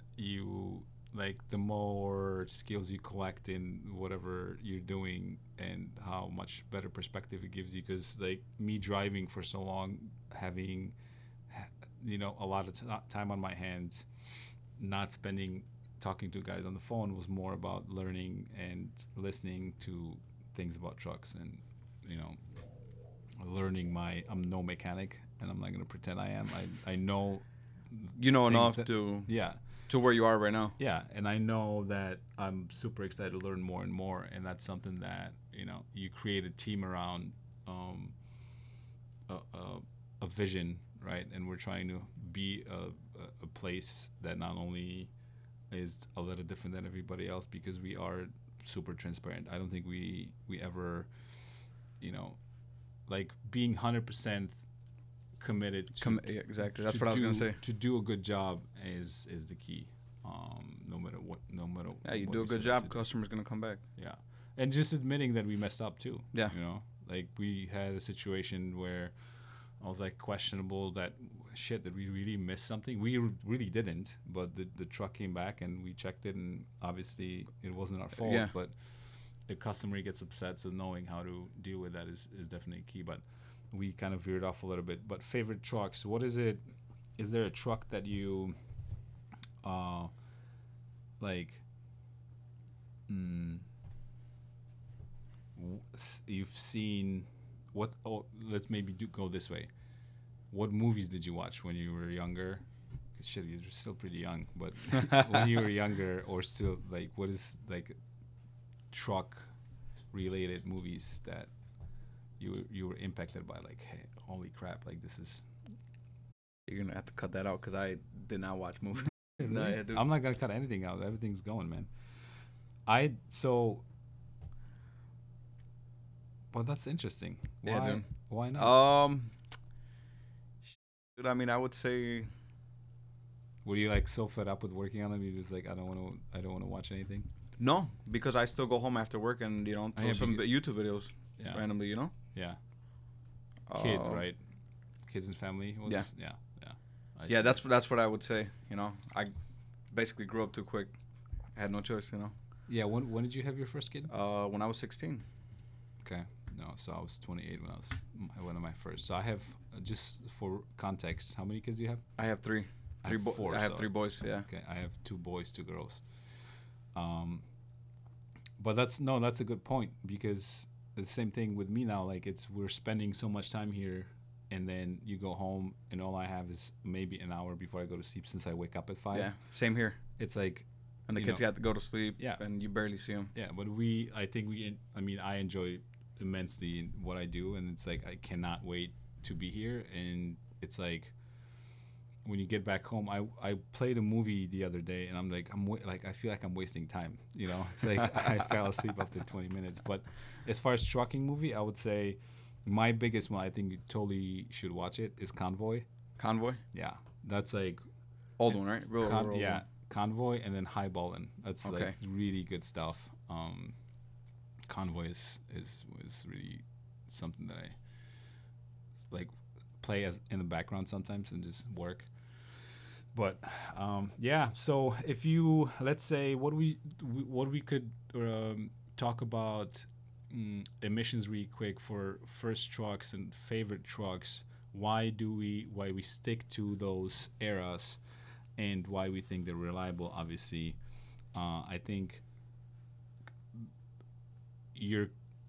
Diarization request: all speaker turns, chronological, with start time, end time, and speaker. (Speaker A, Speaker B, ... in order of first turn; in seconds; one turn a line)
Speaker A: 0.2-10.9
Speaker A: 11.5-14.1
Speaker A: 14.8-22.4
Speaker A: 23.4-29.6
Speaker B: 28.2-29.3
Speaker B: 29.9-30.8
Speaker A: 30.8-38.2
Speaker A: 39.3-45.1
Speaker A: 45.7-51.1
Speaker A: 52.0-52.4
Speaker A: 53.0-54.6
Speaker A: 55.4-63.0
Speaker B: 56.0-57.6
Speaker B: 62.0-63.8
Speaker A: 64.0-78.8
Speaker B: 78.2-78.5
Speaker A: 79.5-86.7
Speaker A: 87.2-88.5
Speaker A: 89.6-90.1
Speaker A: 91.2-91.6
Speaker A: 93.1-93.7
Speaker A: 95.5-99.7
Speaker A: 100.5-102.6
Speaker A: 103.2-108.0
Speaker A: 108.9-109.5
Speaker A: 110.1-111.5
Speaker A: 112.4-115.5
Speaker B: 116.7-120.0
Speaker A: 119.5-121.9
Speaker A: 122.9-123.8
Speaker A: 126.5-128.8
Speaker B: 127.6-129.3
Speaker B: 131.2-132.3
Speaker A: 133.6-137.3
Speaker B: 137.6-142.1
Speaker A: 139.9-140.5
Speaker A: 141.4-142.6
Speaker B: 143.7-144.2
Speaker A: 143.7-144.4
Speaker A: 145.1-147.6
Speaker B: 147.3-149.3
Speaker B: 149.9-150.9
Speaker B: 151.5-152.3
Speaker A: 152.7-154.1
Speaker B: 154.1-155.2
Speaker A: 156.0-162.2
Speaker B: 162.2-164.5
Speaker A: 163.0-166.4
Speaker A: 166.9-167.4
Speaker A: 168.6-179.4
Speaker B: 179.1-180.0
Speaker A: 180.2-181.5
Speaker B: 181.1-183.3
Speaker A: 182.2-182.4
Speaker A: 183.3-191.2
Speaker A: 192.2-205.9
Speaker B: 206.2-206.6
Speaker A: 206.7-207.8
Speaker B: 208.4-209.6
Speaker A: 208.5-213.8
Speaker B: 211.6-211.9
Speaker A: 214.7-217.7
Speaker A: 219.1-238.0
Speaker A: 238.6-240.8
Speaker A: 241.3-242.2
Speaker A: 244.7-245.1